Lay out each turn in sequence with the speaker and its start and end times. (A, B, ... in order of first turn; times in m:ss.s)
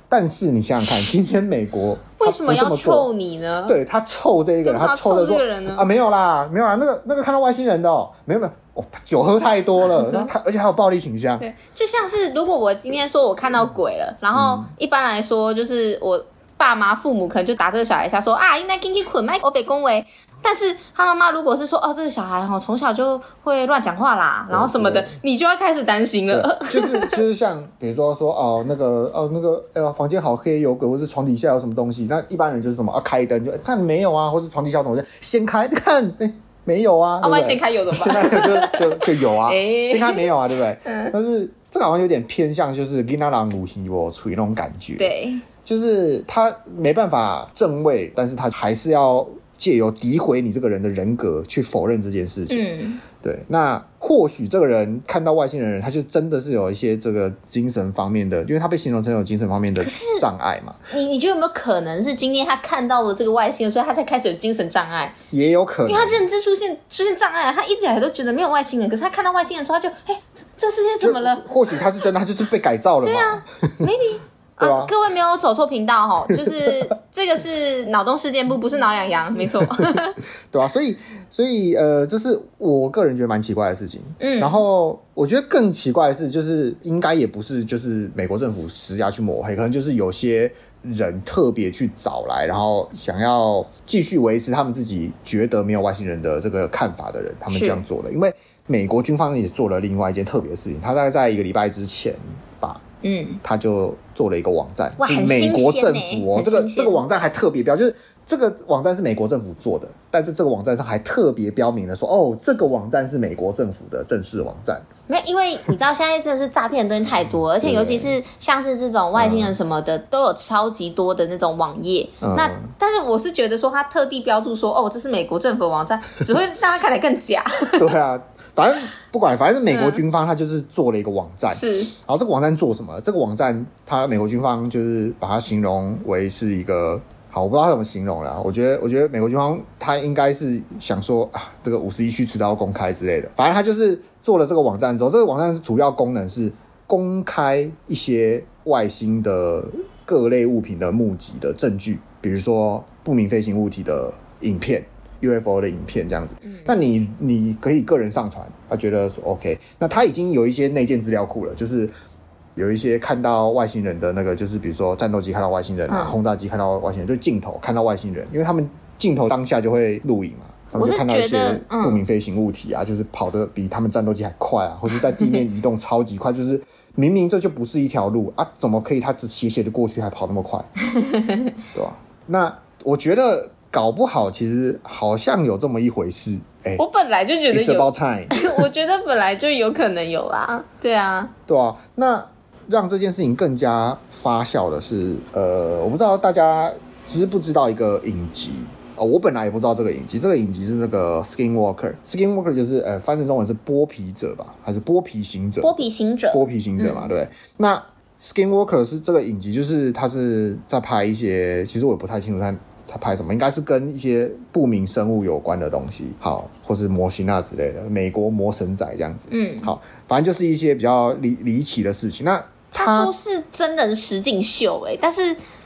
0:00.1-0:03.1 A
0:02.2-0:03.8 B
0:03.6-0:11.4 A
0:04.6-0:05.9 B
0:11.4-0:27.2 B
0:14.3-0:14.7 A
0:24.5-0:25.1 A
0:26.3-0:45.1 A
0:37.2-0:40.3 B
0:40.8-0:41.1 B
0:45.0-0:45.4 B
0:45.6-0:52.6 A
0:52.5-0:53.0 B
0:53.2-1:00.8 A
0:59.8-1:00.2 B
1:00.9-1:05.2 B
1:05.3-1:06.2 A
1:05.8-1:11.8 B
1:11.0-1:13.9 A
1:13.0-1:20.2 B
1:14.6-1:14.9 A
1:16.3-1:16.7 A
1:20.5-1:42.8 A
1:24.2-1:24.6 B
1:37.5-1:37.8 B
1:43.0-1:43.4 B
1:43.4-1:54.8 A
1:45.0-1:47.0 B
1:55.1-2:07.9 B
1:57.6-1:58.2 A
1:59.2-1:59.6 A
2:02.2-2:02.7 A
2:07.8-2:41.9 A
2:09.7-2:10.0 B
2:11.5-2:11.9 B
2:36.4-2:36.7 B
2:42.6-3:00.7 A
2:45.9-2:46.2 B
2:50.7-2:52.0 B
3:00.8-3:01.5 B
3:01.7-3:06.8 A
3:06.8-3:11.3 B
3:07.5-3:08.6 A
3:11.5-3:25.8 A
3:25.6-3:27.1 B
3:26.3-3:43.1 A
3:39.3-3:39.7 B
3:42.7-3:45.4 B